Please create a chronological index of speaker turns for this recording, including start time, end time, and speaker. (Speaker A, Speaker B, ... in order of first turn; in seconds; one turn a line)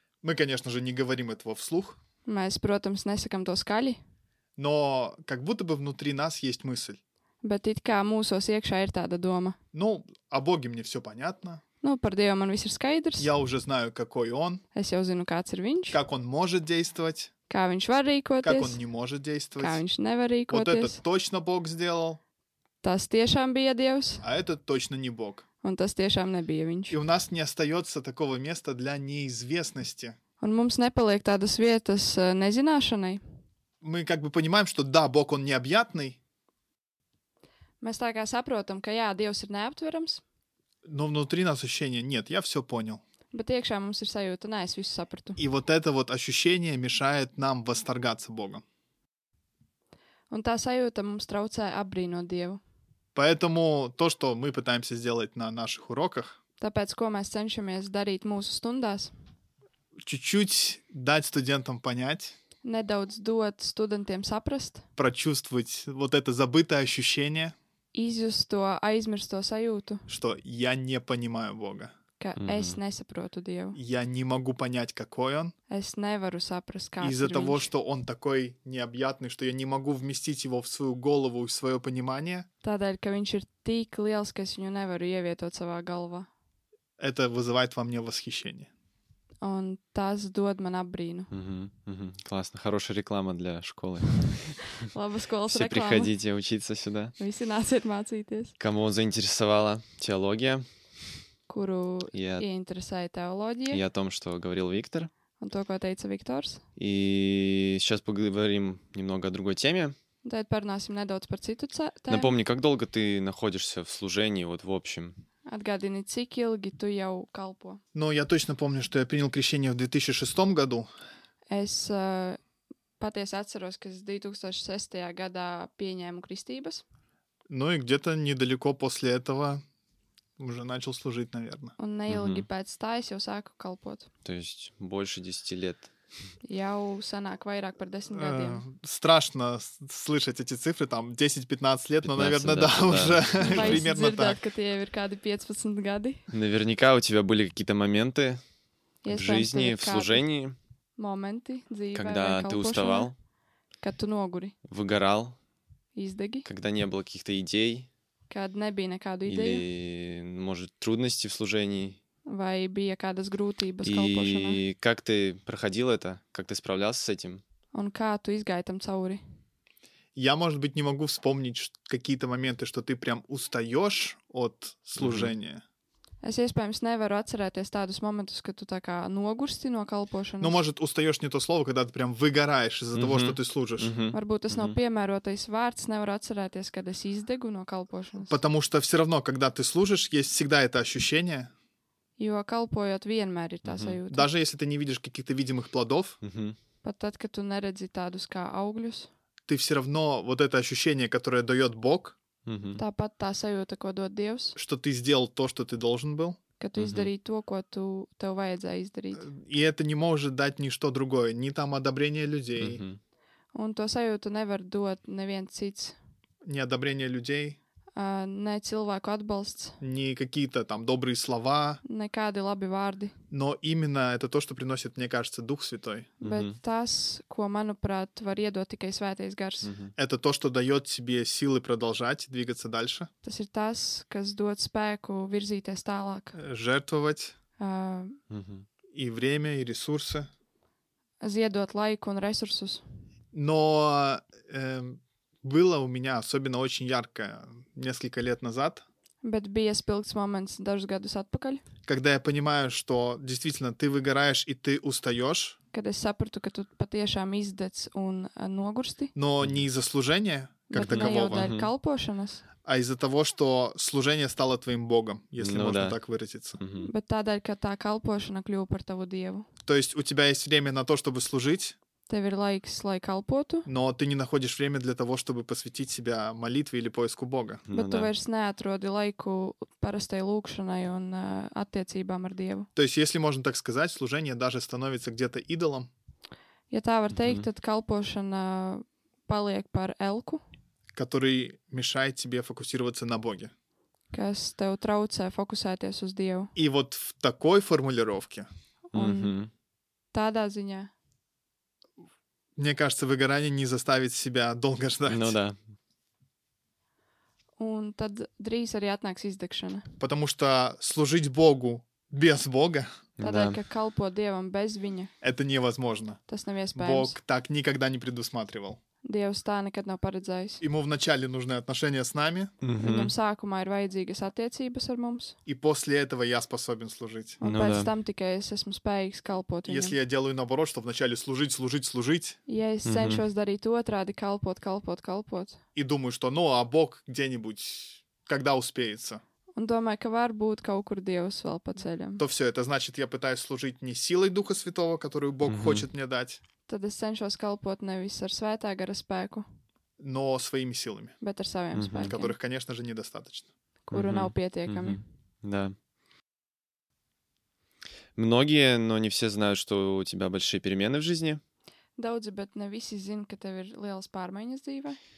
Speaker A: 0.2-2.0
Speaker B: 2.2-4.0
Speaker A: 4.6-7.0
Speaker B: 7.4-9.6
Speaker A: 9.7-11.6
Speaker B: 11.8-13.3
Speaker A: 13.2-14.6
Speaker B: 14.7-16.0
Speaker A: 15.9-17.3
Speaker B: 17.5-18.8
Speaker A: 18.4-19.8
Speaker B: 19.6-21.0
Speaker A: 20.5-22.2
Speaker B: 22.8-24.2
Speaker A: 24.2-25.4
Speaker B: 25.6-27.0
Speaker A: 26.9-30.2
Speaker B: 30.4-33.2
Speaker A: 33.8-36.2
Speaker B: 37.8-40.2
Speaker A: 40.9-43.0
Speaker B: 43.3-45.4
Speaker A: 45.4-48.6
Speaker B: 50.3-52.6
Speaker A: 53.1-56.4
Speaker B: 56.6-59.1
Speaker A: 60.0-62.4
Speaker B: 62.6-64.8
Speaker A: 65.0-67.5
Speaker B: 67.9-70.1
Speaker A: 70.1-71.9
Speaker B: 72.2-73.8
Speaker C: 72.4-72.8
Speaker A: 73.7-75.5
Speaker B: 75.7-77.7
Speaker A: 77.0-82.5
Speaker B: 82.6-86.3
Speaker A: 87.0-88.7
Speaker B: 89.4-91.3
Speaker C: 91.3-94.7
Speaker B: 94.8-96.1
Speaker C: 95.5-97.2
Speaker B: 97.2-98.5
Speaker C: 98.6-100.7
Speaker B: 101.5-103.8
Speaker C: 102.1-102.4
Speaker C: 103.7-105.1
Speaker B: 105.4-106.6
Speaker C: 106.8-109.9
Speaker B: 110.2-112.3
Speaker C: 112.1-115.2
Speaker B: 115.5-117.8
Speaker A: 117.9-120.9
Speaker B: 121.5-122.4
Speaker B: 123.0-126.8
Speaker A: 127.5-129.6
Speaker A: 130.4-131.7
Speaker B: 131.8-134.1
Speaker C: 132.1-132.5
Speaker C: 134.2-135.9
Speaker B: 136.4-138.6
Speaker A: 138.1-144.4
Speaker C: 142.0-143.8
Speaker B: 143.5-146.3
Speaker C: 146.3-148.4
Speaker B: 149.0-150.2
Speaker C: 149.1-150.6
Speaker B: 151.0-153.1
Speaker C: 151.9-153.1
Speaker B: 153.8-154.5
Speaker C: 154.7-155.3
Speaker B: 155.9-156.4
Speaker C: 156.4-157.9
Speaker B: 158.3-159.6
Speaker C: 159.2-162.0
Speaker B: 162.3-164.6
Speaker C: 163.8-167.4
Speaker B: 167.7-169.2
Speaker A: 170.1-175.6
Speaker C: 175.0-175.3
Speaker B: 176.2-180.5
Speaker A: 180.4-183.9
Speaker C: 182.9-184.8
Speaker B: 184.1-188.4
Speaker A: 188.3-191.5
Speaker B: 192.2-194.3
Speaker C: 193.6-194.0
Speaker A: 194.1-196.2
Speaker C: 196.2-196.6
Speaker B: 196.8-199.1
Speaker A: 199.5-202.2
Speaker C: 202.4-202.8
Speaker B: 202.8-204.6
Speaker A: 204.6-206.4
Speaker B: 206.6-209.3
Speaker C: 206.8-207.1
Speaker A: 209.2-212.8
Speaker C: 212.6-213.0
Speaker B: 213.5-216.0
Speaker A: 216.4-217.6
Speaker B: 217.9-219.8
Speaker A: 219.8-221.8
Speaker B: 221.8-223.1
Speaker A: 223.3-226.1
Speaker B: 226.2-229.7
Speaker C: 226.2-226.6
Speaker C: 229.6-229.9
Speaker A: 230.0-233.1
Speaker B: 233.2-236.4
Speaker A: 236.3-237.3
Speaker B: 237.6-238.2
Speaker C: 238.3-238.7
Speaker A: 238.9-240.3
Speaker B: 241.2-242.8
Speaker A: 243.3-248.8
Speaker B: 249.2-251.6
Speaker A: 251.8-255.6
Speaker B: 255.7-259.1
Speaker A: 259.1-261.5
Speaker B: 260.7-262.4
Speaker C: 260.8-261.7
Speaker A: 262.6-266.6
Speaker C: 265.4-266.0
Speaker C: 266.6-266.9
Speaker B: 266.8-269.5
Speaker A: 269.6-271.8
Speaker B: 272.1-273.7
Speaker A: 273.6-277.6
Speaker C: 277.7-278.1
Speaker B: 277.7-282.7
Speaker A: 282.8-285.9
Speaker B: 286.7-290.4
Speaker C: 287.1-287.4
Speaker A: 290.9-293.5
Speaker B: 294.1-296.5
Speaker A: 296.5-298.5
Speaker B: 298.9-299.3
Speaker C: 298.9-299.5
Speaker B: 300.1-300.9
Speaker A: 302.6-305.4
Speaker C: 305.1-305.6
Speaker B: 307.6-309.9
Speaker A: 310.0-312.9
Speaker C: 313.2-313.6
Speaker B: 313.2-315.1
Speaker A: 315.2-316.2
Speaker B: 316.3-317.1
Speaker A: 316.7-318.8
Speaker B: 319.0-320.6
Speaker A: 320.6-322.5
Speaker C: 322.6-323.1
Speaker B: 322.8-325.4
Speaker A: 325.4-327.4
Speaker B: 327.4-330.0
Speaker C: 327.4-327.9
Speaker A: 329.6-332.4
Speaker B: 332.5-335.6
Speaker C: 332.8-333.2
Speaker A: 335.7-339.2
Speaker B: 339.6-342.2
Speaker A: 342.2-346.4
Speaker C: 345.4-345.9
Speaker B: 346.7-349.4
Speaker A: 350.0-351.1
Speaker B: 351.2-352.3
Speaker C: 351.7-352.1
Speaker A: 352.0-353.5
Speaker B: 353.9-355.0
Speaker C: 353.9-355.7
Speaker C: 358.1-361.4
Speaker B: 362.0-365.0